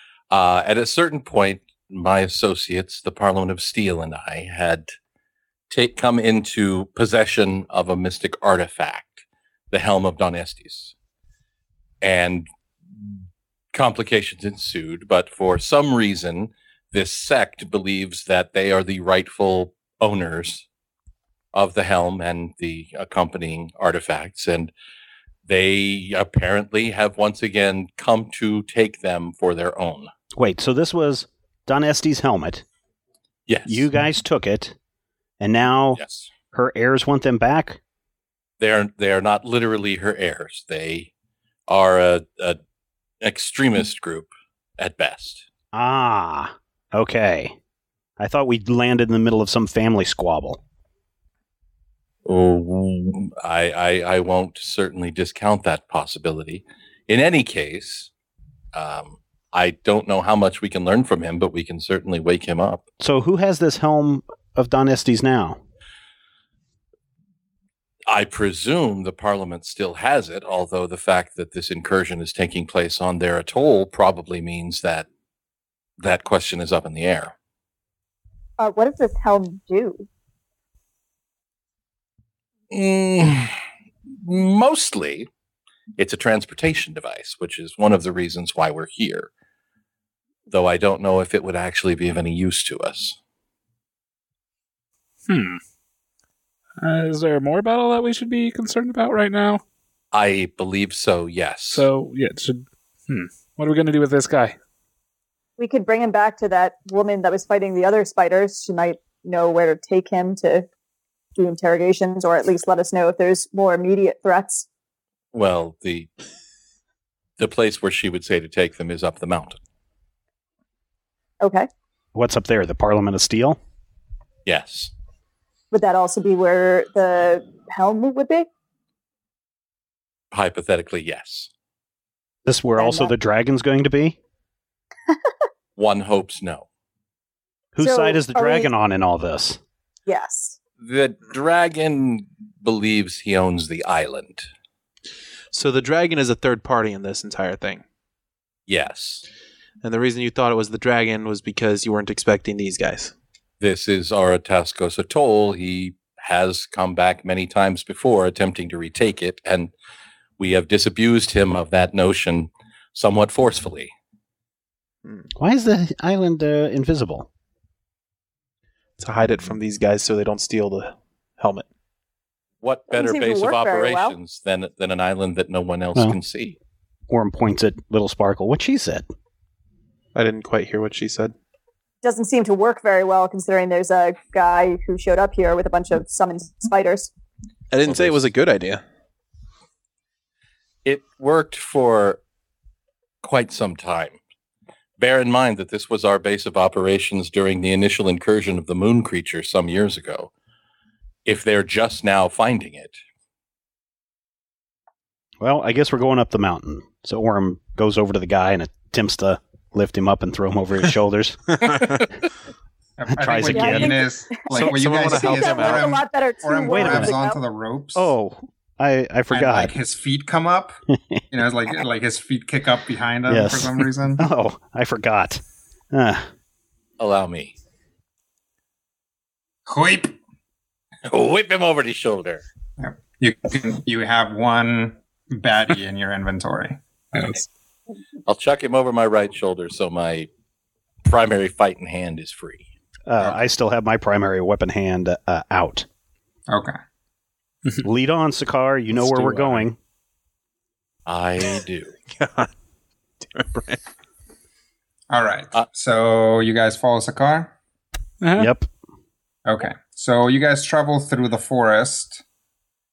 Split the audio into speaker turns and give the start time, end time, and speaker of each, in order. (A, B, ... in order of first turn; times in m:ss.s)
0:00.3-0:04.9 A
0:05.7-0:10.9 A
0:12.0-0:12.5 A
0:13.7-0:20.6 A
0:21.5-0:24.7 A
0:25.5-0:30.1 A
0:30.4-0:32.6 B
0:33.5-0:33.8 A
0:33.7-0:34.8 B
0:35.4-0:36.0 B
0:36.0-0:36.3 A
0:36.5-0:37.8 B
0:38.6-0:41.1 A
0:41.7-0:42.6 A
0:43.2-0:45.4 A
0:45.7-0:47.6 B
0:48.2-0:50.6 B
0:52.2-0:58.1 A
0:58.7-1:02.8 A
1:03.0-1:05.6 B
1:08.1-1:15.1 A
1:16.0-1:17.3 A
1:18.6-1:20.1 C
1:22.7-1:23.5 A
1:24.2-1:25.3 A
1:26.0-1:29.3 A
1:30.5-1:33.2 A
1:35.3-1:35.6 D
1:36.8-1:39.6 D
1:40.1-1:41.9 A
1:41.7-1:44.6 D
1:45.6-1:50.7 C
1:51.4-1:54.7 C
1:55.3-1:56.1 A
1:57.4-1:59.6 A
2:01.4-2:01.7 C
2:02.1-2:03.6 B
2:04.5-2:04.9 A
2:05.7-2:08.5 C
2:10.3-2:11.5 A
2:12.4-2:14.2 B
2:12.8-2:13.2 C
2:15.8-2:16.7 A
2:17.7-2:19.6 B
2:17.8-2:18.7 C
2:20.1-2:20.6 C
2:20.8-2:24.5 A
2:25.5-2:27.8 E
2:28.7-2:29.2 A
2:29.8-2:33.1 E
2:33.6-2:39.7 A
2:40.4-2:43.9 A
2:45.4-2:47.3 B
2:49.0-2:51.7 E
2:52.6-2:56.6 A
2:52.9-2:54.2 C
2:57.1-2:59.1 B
3:00.2-3:01.3 E
3:02.0-3:07.1 C
3:07.7-3:08.8 E
3:07.9-3:08.2 A
3:10.8-3:12.2 A
3:13.2-3:14.2 A
3:15.0-3:20.3 A
3:21.3-3:23.0 A
3:25.4-3:31.9 B
3:33.0-3:38.1 F
3:33.1-3:34.0 B
3:33.5-3:37.4 C
3:34.6-3:36.0 E
3:36.7-3:37.2 B
3:38.0-3:39.8 B
3:39.3-3:40.8 F
3:40.9-3:41.2 B
3:41.3-3:44.2 F
3:43.3-3:45.4 B
3:45.9-3:46.3 B
3:47.0-3:47.6 A
3:49.7-3:50.2 F
3:51.1-3:52.4 A
3:52.8-3:56.8 F
3:57.1-3:57.4 D
3:58.3-4:00.3 A
4:01.0-4:02.6 A
4:03.1-4:05.9 B
4:06.5-4:06.8 F
4:07.8-4:09.8 B
4:11.1-4:12.0 A
4:12.1-4:12.5 E
4:13.2-4:13.8 E
4:15.1-4:17.5 F
4:18.2-4:18.5 D
4:18.4-4:18.7 B
4:19.5-4:22.2 F